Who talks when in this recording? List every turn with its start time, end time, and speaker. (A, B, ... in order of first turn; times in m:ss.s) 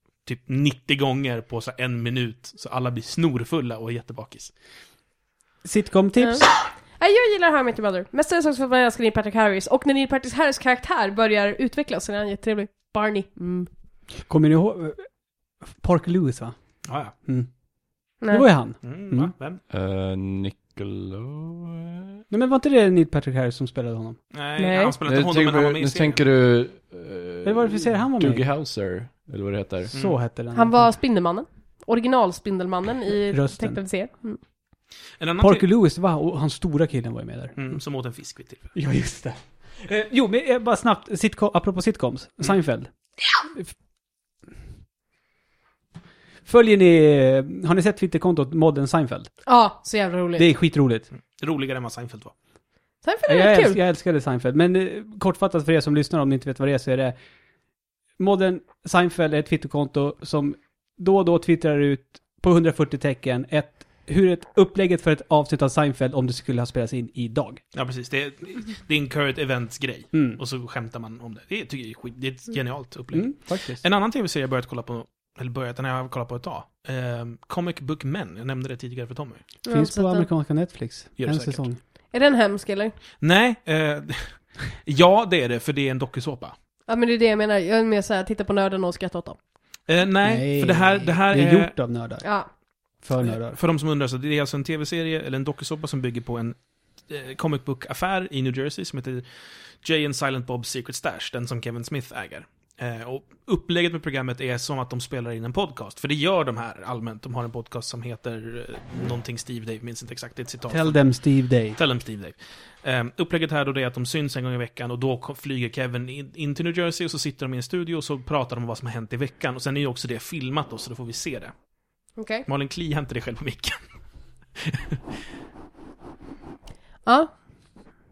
0:00.2-0:04.5 A
0:05.6-0:06.4 B
0:06.2-0:13.7 C
0:14.2-0:15.1 B
0:15.6-0:16.5 B
0:16.8-0:17.1 A
0:17.2-0:17.5 B
0:18.2-0:18.5 C
0:18.3-0:19.3 B
0:18.8-0:19.6 A
0:19.7-0:22.2 D
0:22.3-0:24.2 B
0:24.3-0:26.2 A
0:24.6-0:25.0 C
0:25.0-0:29.9 D
0:27.4-0:28.4 B
0:29.9-0:30.2 A
0:29.9-0:30.9 B
0:30.5-0:34.4 C
0:33.3-0:33.8 B
0:35.2-0:35.6 A
0:35.4-0:37.8 B
0:37.6-0:38.7 A
0:38.7-0:42.9 B
0:46.4-0:49.3 B
0:49.4-0:50.5 C
0:50.4-0:51.1 B
0:51.4-0:52.3 A
0:53.0-0:53.8 C
0:53.3-0:57.2 B
0:58.2-1:07.6 B
1:07.7-1:19.4 A
1:10.1-1:10.4 B
1:13.1-1:13.8 B
1:19.6-1:20.3 C
1:19.7-1:21.8 B
1:21.2-1:21.7 A
1:22.1-1:22.9 C
1:23.2-1:26.5 A
1:26.9-1:29.4 C
1:29.9-1:31.7 A
1:30.2-1:32.3 B
1:32.2-1:32.5 C
1:33.0-1:33.6 B
1:33.3-1:39.2 A
1:39.8-1:51.0 A
1:50.7-1:51.8 B
1:51.7-2:01.5 A
2:02.2-2:02.4 C
2:02.4-2:03.8 A
2:04.6-2:05.0 A